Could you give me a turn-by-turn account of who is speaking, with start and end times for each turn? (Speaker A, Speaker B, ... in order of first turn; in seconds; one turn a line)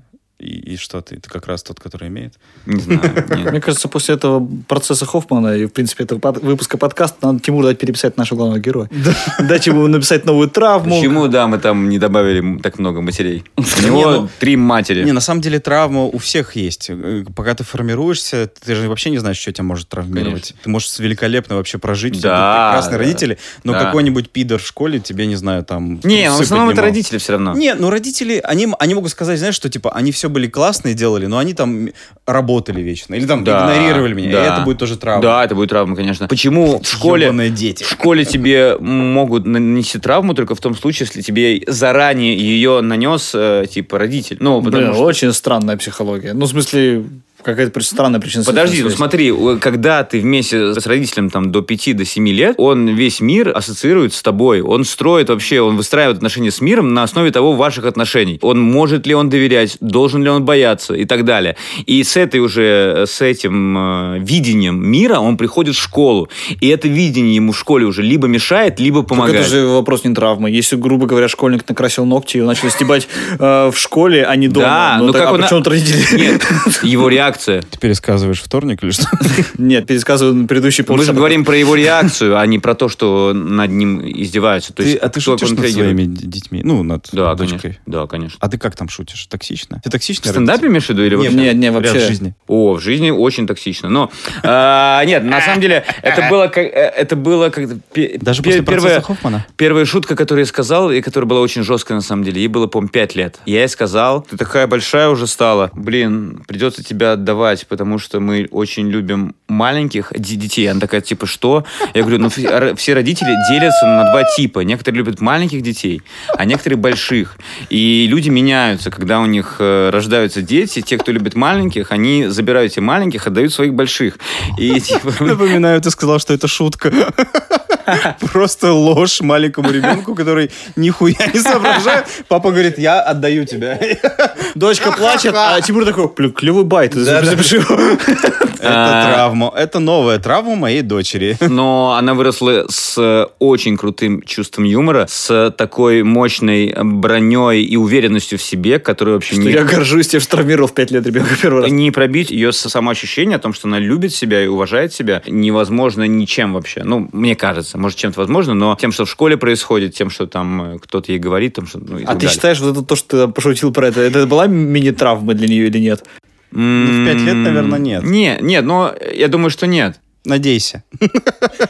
Speaker A: 0.4-3.5
Speaker B: 2.7-3.6
Speaker C: 3.5-11.2
Speaker A: 9.0-9.6
Speaker B: 10.8-15.1
Speaker C: 13.6-14.3
Speaker A: 15.0-27.0
Speaker B: 20.1-20.5
Speaker B: 22.1-24.0
Speaker B: 26.1-27.6
Speaker A: 27.5-35.4
Speaker B: 33.4-45.2
Speaker A: 36.8-38.0
Speaker C: 44.6-49.1
Speaker B: 48.5-69.5
Speaker C: 69.1-77.1
Speaker B: 74.5-77.7
Speaker A: 77.7-79.5
Speaker C: 79.3-82.1
Speaker B: 80.9-86.0
Speaker A: 84.8-87.8
Speaker B: 87.1-88.4
Speaker A: 88.4-92.3
Speaker B: 90.2-91.5
Speaker C: 91.2-92.2
Speaker B: 92.5-125.6
Speaker A: 98.2-99.5
Speaker A: 125.2-135.6
Speaker B: 131.7-131.9
Speaker C: 134.6-138.5
Speaker A: 136.9-137.6
Speaker A: 138.6-141.5
Speaker B: 138.6-139.3
Speaker B: 141.5-149.7
Speaker C: 149.3-151.7
Speaker B: 151.6-162.4
Speaker C: 162.1-166.0
Speaker B: 166.5-170.0
Speaker A: 166.8-168.1
Speaker A: 170.2-171.5